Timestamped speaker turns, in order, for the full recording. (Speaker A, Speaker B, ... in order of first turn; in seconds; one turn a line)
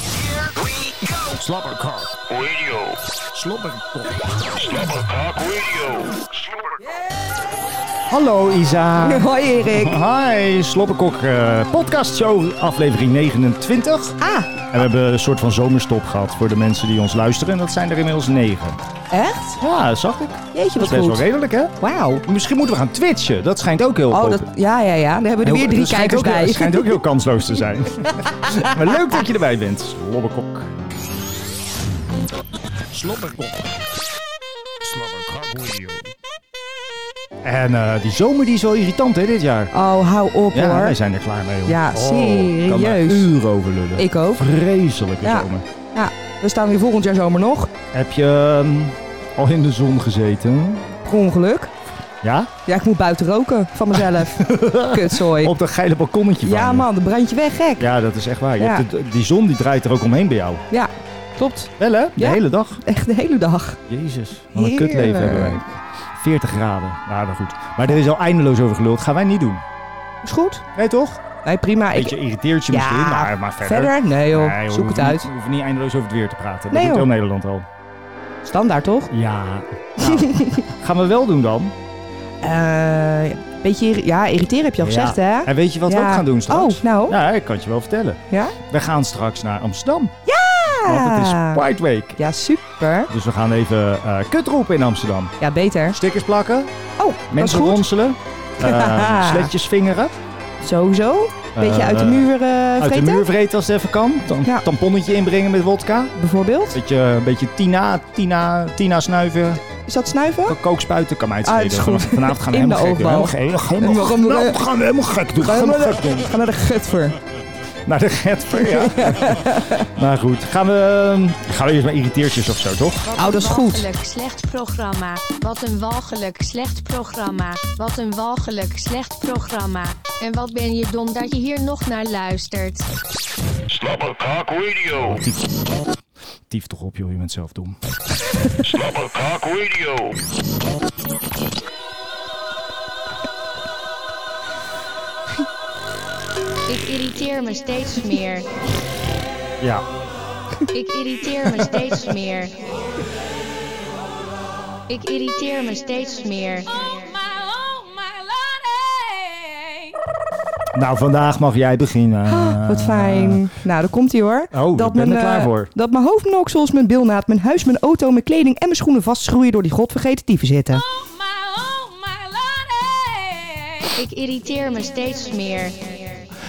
Speaker A: 1.5-3.0
Speaker A: 4.3-6.7
Speaker B: 8.1-14.2
Speaker C: 9.0-10.0
Speaker C: 14.2-14.5
Speaker B: 14.7-18.8
Speaker C: 19.1-19.6
Speaker B: 19.6-24.5
Speaker C: 20.5-21.2
Speaker C: 21.8-22.2
Speaker C: 24.1-27.0
Speaker B: 25.4-30.7
Speaker B: 37.4-39.7
Speaker C: 39.7-41.0
Speaker B: 40.5-45.6
Speaker C: 41.6-43.3
Speaker C: 44.0-44.5
Speaker C: 45.2-47.7
Speaker B: 47.9-50.9
Speaker C: 51.0-51.7
Speaker B: 52.2-52.5
Speaker C: 52.6-55.5
Speaker B: 53.9-56.9
Speaker C: 56.4-57.9
Speaker B: 57.8-60.6
Speaker C: 58.6-58.8
Speaker C: 60.7-63.8
Speaker B: 61.8-62.8
Speaker B: 63.9-69.6
Speaker C: 64.5-65.6
Speaker C: 70.2-70.6
Speaker B: 70.7-71.2
Speaker C: 71.4-72.2
Speaker B: 71.9-77.7
Speaker C: 72.7-75.3
Speaker C: 76.7-77.1
Speaker C: 78.4-79.1
Speaker B: 79.1-81.7
Speaker C: 80.0-80.6
Speaker C: 82.4-87.2
Speaker B: 84.8-90.1
Speaker C: 88.3-88.5
Speaker C: 90.2-91.6
Speaker B: 90.8-92.2
Speaker C: 92.2-93.1
Speaker B: 93.1-95.3
Speaker C: 95.4-96.0
Speaker B: 95.9-96.7
Speaker C: 97.0-97.8
Speaker B: 97.3-100.2
Speaker C: 98.6-99.5
Speaker C: 100.6-103.2
Speaker B: 101.5-106.1
Speaker C: 106.2-106.8
Speaker B: 106.7-109.6
Speaker C: 109.8-110.6
Speaker B: 110.5-116.3
Speaker C: 111.4-114.6
Speaker C: 115.4-117.2
Speaker B: 117.8-123.1
Speaker C: 118.6-119.8
Speaker D: 123.0-132.9
Speaker C: 123.2-123.8
Speaker A: 133.7-135.2
Speaker B: 135.0-135.4
Speaker B: 136.5-137.8
Speaker A: 138.6-140.2
Speaker D: 146.7-148.5
Speaker B: 149.6-149.8
Speaker D: 150.7-152.5
Speaker D: 154.9-157.2
Speaker B: 160.7-163.5
Speaker C: 162.3-170.8
Speaker B: 164.5-165.7
Speaker D: 173.9-176.2